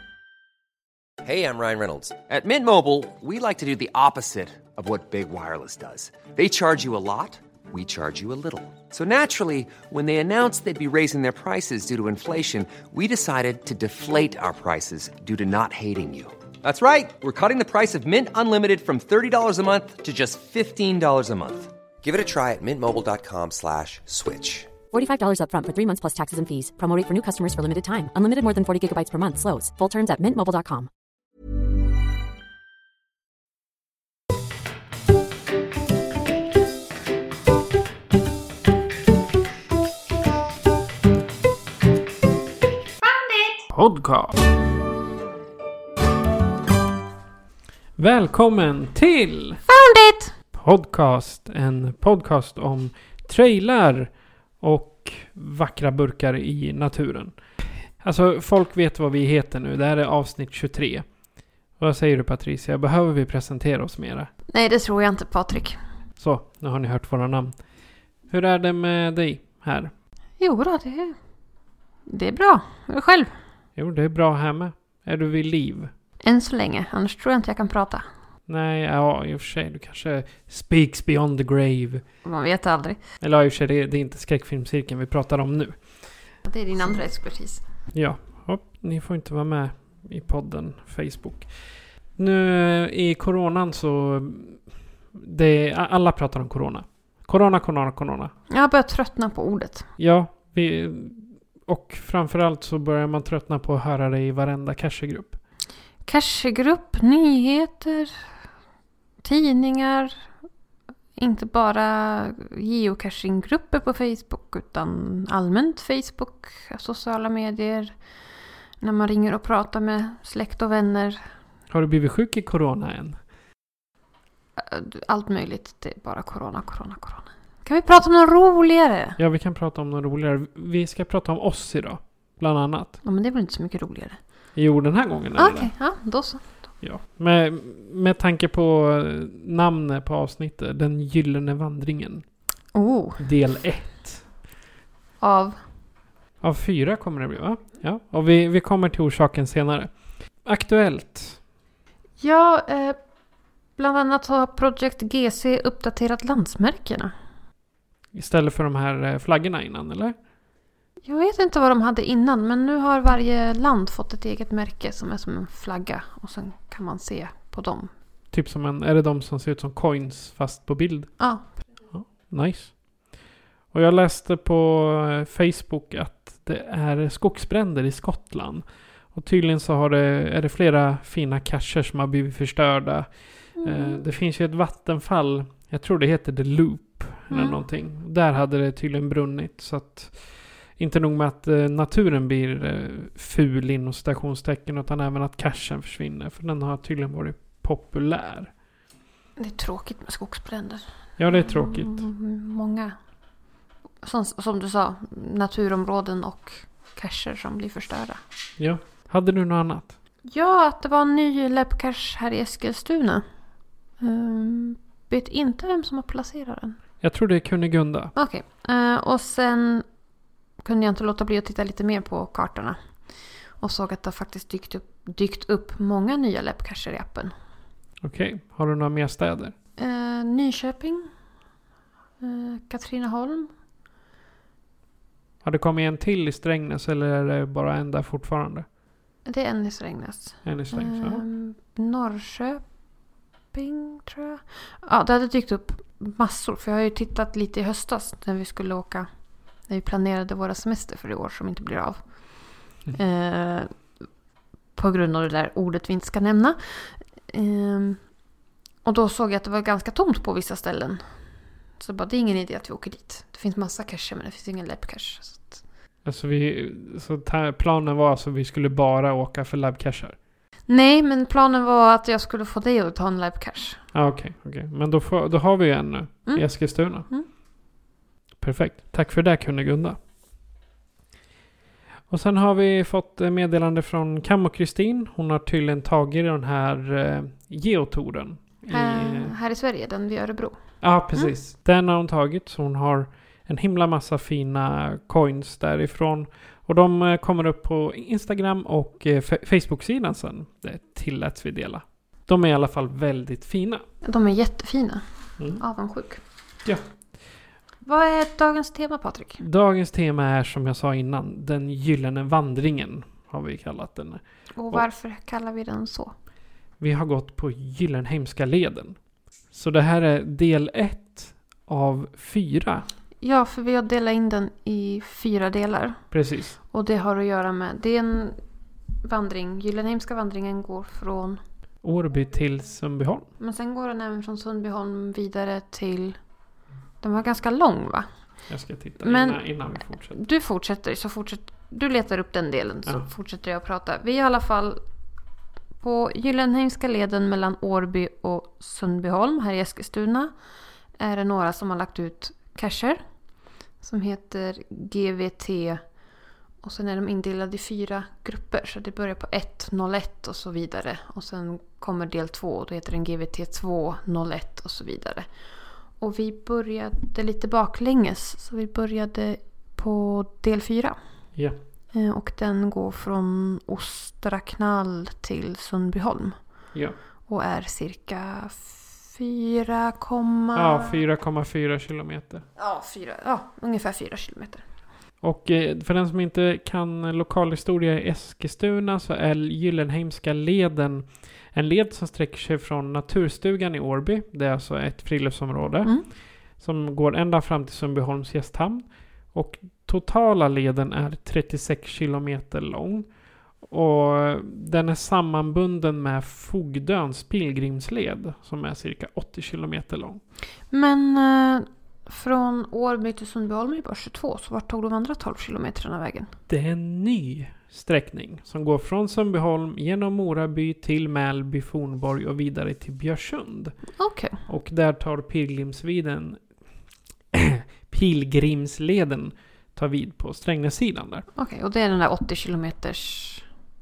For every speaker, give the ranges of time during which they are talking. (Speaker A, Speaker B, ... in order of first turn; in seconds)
Speaker A: 1.2-24.7
Speaker B: 24.9-30.9
Speaker C: 43.7-44.3, 48.0-49.6, 50.5-57.3, 58.0-61.0, 61.8-64.3, 66.2-67.5, 68.3-69.9, 73.8-75.9, 78.5-82.0, 83.2-85.8, 87.9-91.5, 92.2-94.6, 95.1-98.3, 100.0-105.4, 121.7-123.2, 129.2-133.0, 134.5-135.7, 136.8-142.2, 143.2-144.2, 146.4-149.9, 150.4-151.4, 158.1-160.2, 168.3-171.2, 171.9-172.8, 173.7-183.1, 183.6-190.2, 190.8-198.5, 201.2-202.1, 208.6-209.9, 217.0-218.1, 228.0-229.5, 235.4-238.7, 240.4-241.2, 266.0-270.1, 273.9-277.1, 278.4-280.0, 282.1-289.3, 290.8-303.8, 309.4-314.2, 316.8-318.9, 319.5-322.9, 326.1-326.6, 331.8-333.3, 338.5-340.2, 380.5-382.4, 385.2-396.0, 396.6-403.1, 403.6-410.2, 416.5-423.8, 424.5-426.4, 427.3-431.2
Speaker D: 49.7-50.3, 64.5-65.8, 70.4-71.2, 72.1-73.3, 76.2-78.0, 82.2-83.0, 86.5-87.6, 98.5-99.8, 106.0-108.1, 109.2-110.1, 111.2-118.0, 118.8-121.2, 124.6-129.2, 133.0-134.2, 135.4-136.5, 142.7-143.2, 145.2-145.6, 152.2-153.0, 153.8-157.1, 161.0-167.9, 171.2-171.5, 183.6-184.0, 187.3-187.6, 199.4-202.9, 204.0-208.2, 210.2-213.2, 214.0-216.8, 218.2-219.8, 220.6-222.8, 223.6-227.3, 229.8-231.1, 232.2-233.5, 239.2-242.6, 243.5-249.1, 249.7-252.0, 252.9-253.7, 254.8-258.0, 258.8-261.0, 261.8-265.6, 270.7-273.8, 288.7-290.6, 304.0-305.0, 305.6-306.2, 307.8-309.4, 314.6-316.1, 323.2-326.0, 326.7-328.4, 329.0-331.4, 333.4-336.2, 337.0-338.1, 339.0-339.4, 340.1-344.8, 345.8-350.3, 351.0-353.0, 353.8-355.8, 356.6-365.3, 366.0-371.0, 371.9-376.4, 377.3-380.9, 382.6-384.6, 410.7-416.3, 424.0-424.4, 431.3-433.4